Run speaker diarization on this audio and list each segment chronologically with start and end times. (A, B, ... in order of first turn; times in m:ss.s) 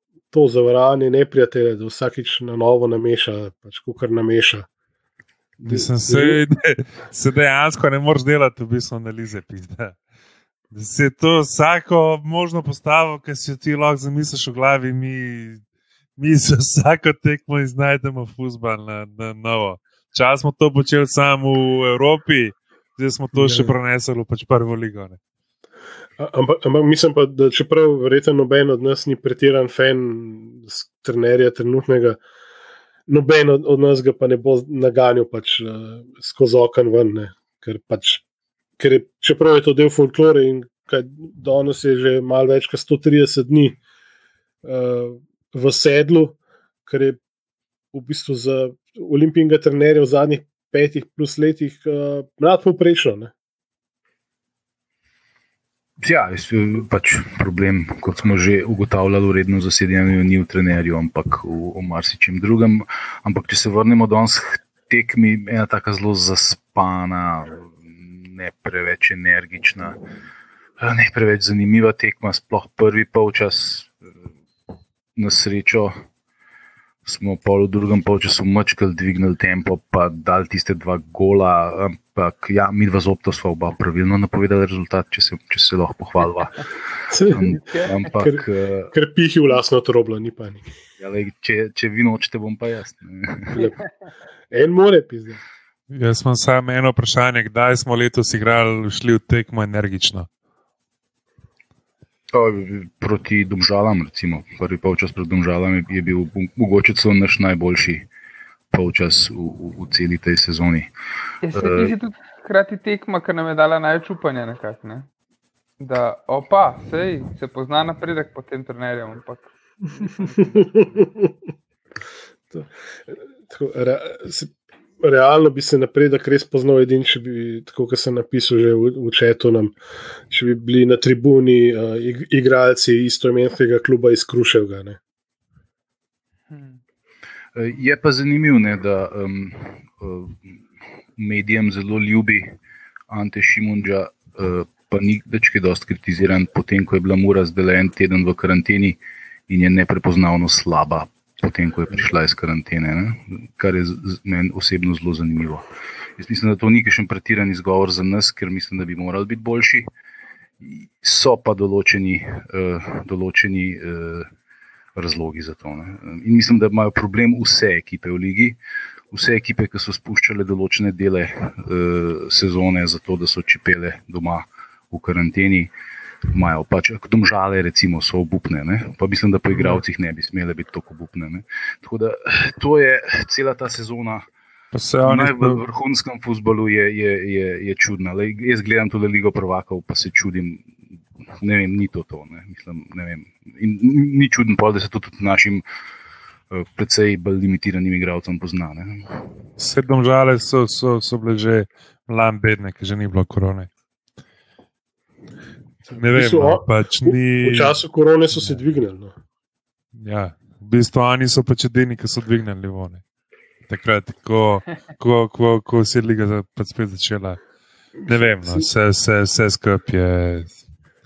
0:00.3-0:04.7 A
0:05.6-0:06.4 A
0:05.6-0:10.0 B
0:10.7-0:15.6 B
0:16.2-0:25.2 B
0:23.3-0:23.7 A
0:26.2-0:32.2 A
0:33.1-0:38.2 A
0:38.8-0:43.8 A
0:44.6-0:47.2 A
0:47.9-0:53.3 A
0:56.0-1:10.0 C
1:10.8-1:14.0 C
1:15.2-1:16.0 C
1:17.0-1:26.7 C
1:27.1-1:27.6 A
1:27.3-1:28.9 C
1:27.5-1:28.0 D
1:28.2-1:30.6 A
1:31.0-1:33.6 C
1:33.5-1:33.8 A
1:34.5-1:35.4 A
1:35.9-1:40.3 B
1:42.3-1:48.0 C
1:48.7-1:50.9 C
1:51.4-1:55.1 D
1:51.5-1:52.0 C
1:55.8-2:01.0 D
2:00.4-2:01.3 A
2:02.5-2:09.7 A
2:10.3-2:15.0 A
2:16.5-2:16.8 D
2:17.6-2:20.6 C
2:21.2-2:22.5 C
2:23.1-2:29.0 C
2:29.5-2:35.6 C
2:36.2-2:39.9 C
2:40.6-2:44.3 C
2:45.0-2:48.6 C
2:49.1-2:55.7 C
2:56.3-3:04.3 C
3:04.7-3:05.6 B
3:05.0-3:10.7 C
3:11.4-3:15.6 C
3:16.5-3:19.3 C
3:19.6-3:23.7 B
3:25.9-3:29.2 A
3:26.0-3:27.8 B
3:30.0-3:33.0 B
3:33.7-3:37.4 B
3:38.0-3:38.7 A
3:38.1-3:40.5 B